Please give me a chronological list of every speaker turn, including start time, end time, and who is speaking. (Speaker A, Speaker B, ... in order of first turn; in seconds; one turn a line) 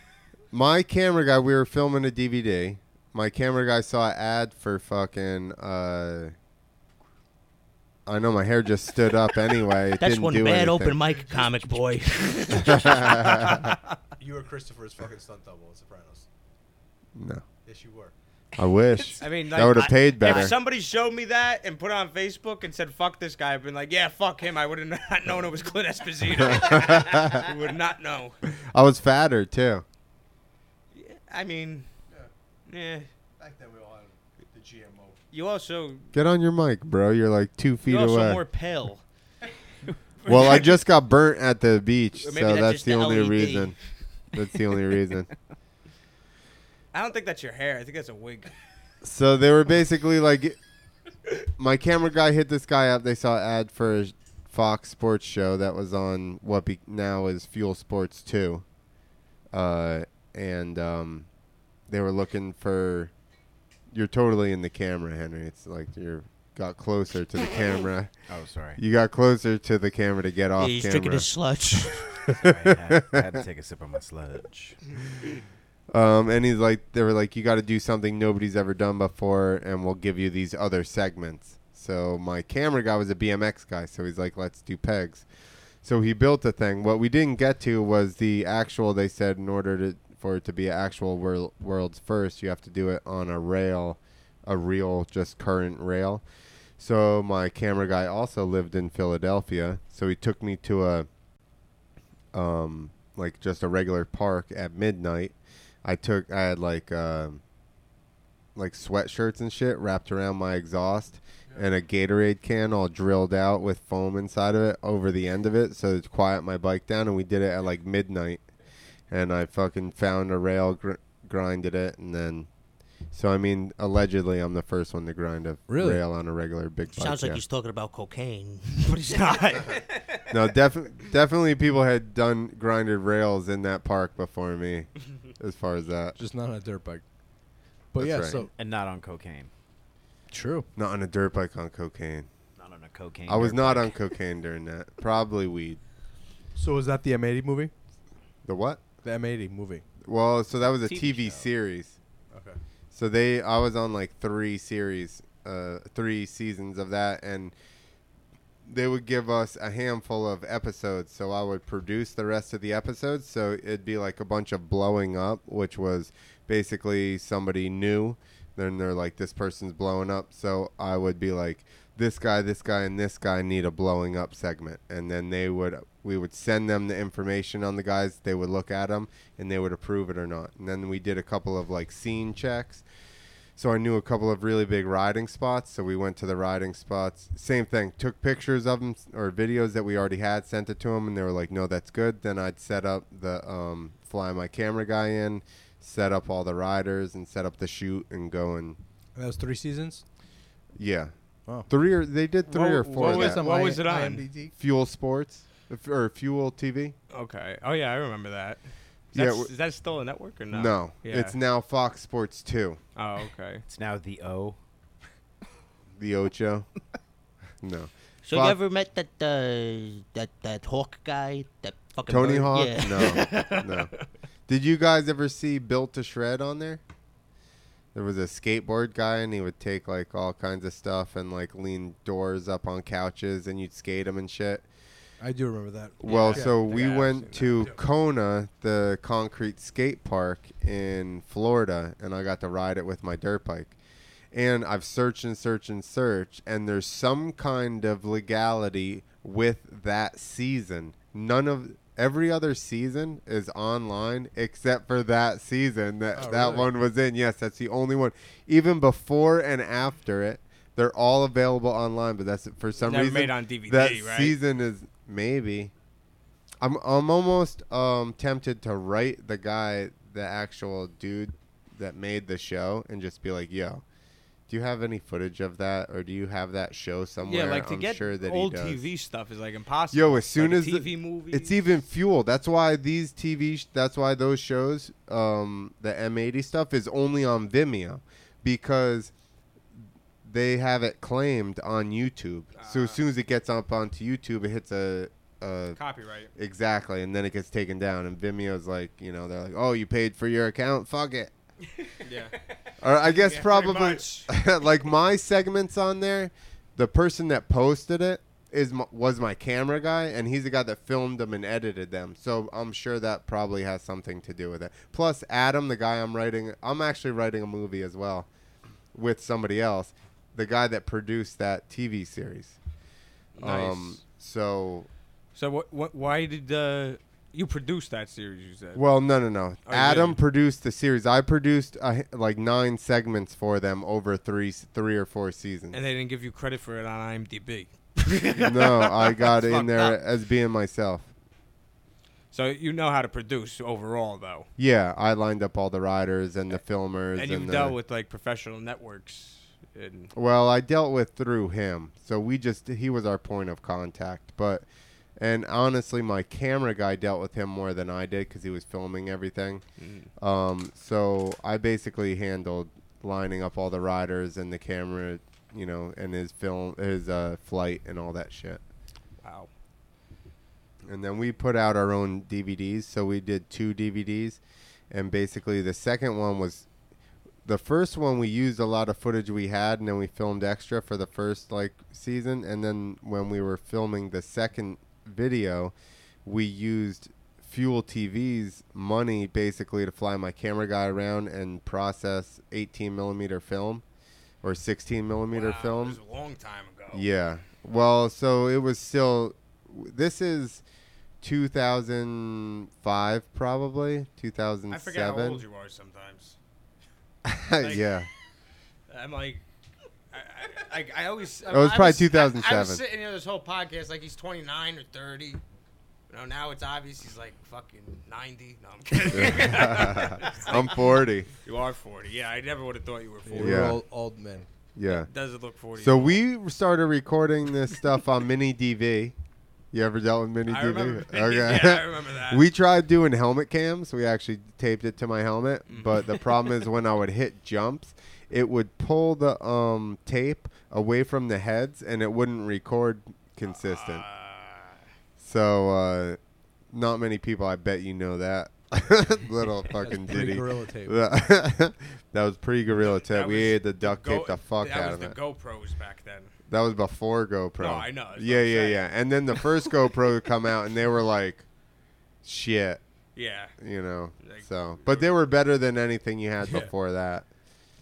Speaker A: 0.5-6.3
Speaker A: 8.1-10.9
Speaker B: 10.0-13.2
Speaker C: 11.0-12.1
Speaker A: 12.6-13.5
Speaker C: 14.2-16.2
Speaker A: 17.1-17.4
Speaker C: 17.6-18.1
Speaker A: 18.6-20.6
Speaker D: 19.2-28.4
Speaker E: 20.2-20.5
Speaker A: 26.3-27.4
Speaker A: 28.6-29.8
Speaker D: 30.9-31.9
Speaker D: 32.7-33.1
Speaker C: 33.4-35.2
Speaker D: 35.3-36.1
Speaker A: 36.1-38.4
Speaker D: 37.9-39.0
Speaker D: 40.2-40.8
Speaker A: 40.2-43.8
Speaker D: 42.3-43.6
Speaker B: 43.1-43.7
Speaker A: 44.3-45.3
Speaker D: 46.9-48.5
Speaker A: 49.0-50.6
Speaker A: 51.6-58.6
Speaker A: 59.5-61.3
Speaker A: 61.9-63.1
Speaker A: 63.9-68.1
Speaker E: 68.3-68.8
Speaker A: 68.8-71.3
Speaker B: 70.6-72.0
Speaker E: 72.3-74.8
Speaker A: 72.4-73.4
Speaker A: 75.9-85.2
Speaker A: 85.8-96.2
Speaker A: 96.8-101.1
Speaker A: 102.3-107.4
Speaker A: 108.5-118.4
Speaker A: 119.1-122.5
Speaker A: 123.1-127.4
Speaker C: 125.7-126.0
Speaker B: 126.9-129.7
Speaker D: 129.1-129.8
Speaker A: 130.3-136.2
Speaker C: 136.2-137.0
Speaker C: 137.9-138.5
Speaker A: 138.0-138.4
Speaker E: 138.6-139.5
Speaker C: 140.3-140.7
Speaker A: 140.8-142.3
Speaker E: 142.6-143.9
Speaker A: 143.3-145.8
Speaker C: 146.5-147.7
Speaker A: 148.4-148.8
Speaker C: 149.0-149.8
Speaker A: 150.0-151.9
Speaker E: 150.8-151.5
Speaker C: 152.3-152.6
Speaker A: 152.9-157.5
Speaker A: 158.6-182.8
Speaker A: 183.6-198.8
Speaker C: 199.2-200.0
Speaker A: 200.8-203.4
Speaker D: 202.5-204.3
Speaker C: 202.5-204.5
Speaker A: 204.6-206.9
Speaker D: 207.1-208.6
Speaker D: 209.1-211.4
Speaker A: 209.1-209.5
Speaker A: 210.5-212.8
Speaker D: 212.9-213.6
Speaker E: 213.7-214.6
Speaker A: 215.9-216.7
Speaker A: 217.6-218.6
Speaker B: 218.2-223.4
Speaker A: 222.1-223.9
Speaker D: 223.3-223.7
Speaker A: 224.5-226.8
Speaker A: 227.9-234.7
Speaker C: 235.2-236.6
Speaker A: 236.0-243.8
Speaker D: 236.0-237.7
Speaker A: 244.3-265.7
Speaker C: 256.1-256.7
Speaker D: 262.8-264.4
Speaker A: 266.6-273.8
Speaker A: 274.5-278.9
Speaker D: 277.2-281.6
Speaker A: 279.9-289.1
Speaker A: 290.2-295.8
Speaker D: 292.6-293.0
Speaker D: 295.8-296.3
Speaker A: 296.3-301.3
Speaker D: 302.0-302.3
Speaker A: 302.8-318.3
Speaker D: 303.0-304.3
Speaker A: 318.9-322.6
Speaker D: 323.4-324.0
Speaker A: 323.4-324.9
Speaker D: 325.3-328.8
Speaker A: 328.7-335.8
Speaker D: 329.6-330.2
Speaker D: 335.7-340.0
Speaker A: 338.3-341.1
Speaker D: 342.3-344.5
Speaker A: 344.6-347.8
Speaker D: 347.1-350.1
Speaker A: 350.1-354.6
Speaker A: 355.2-359.6
Speaker D: 359.8-360.1
Speaker A: 360.2-368.6
Speaker D: 369.2-369.5
Speaker A: 370.9-374.4
Speaker A: 374.9-376.6
Speaker A: 377.4-393.8
Speaker A: 394.4-396.0
Speaker D: 395.3-397.0
Speaker A: 396.9-400.6
Speaker A: 401.2-405.4
Speaker D: 404.7-406.4
Speaker A: 407.2-408.1
Speaker D: 407.6-407.9
Speaker D: 408.9-409.4
Speaker D: 410.1-415.4
Speaker A: 411.5-412.8
Speaker D: 416.1-423.7
Speaker A: 419.1-421.3
Speaker C: 423.2-424.5
Speaker A: 423.4-423.8
Speaker A: 424.8-425.1
Speaker D: 424.9-426.2
Speaker A: 425.7-429.1
Speaker A: 429.7-444.0
Speaker D: 430.5-432.5
Speaker D: 435.7-436.3
Speaker D: 443.4-444.8
Speaker A: 445.2-446.2
Speaker A: 446.7-455.2
Speaker C: 449.8-451.0
Speaker D: 452.9-456.3
Speaker A: 456.5-461.4
Speaker D: 457.6-459.4
Speaker A: 462.2-462.8
Speaker D: 463.1-463.5
Speaker A: 463.6-467.3
Speaker D: 464.2-465.1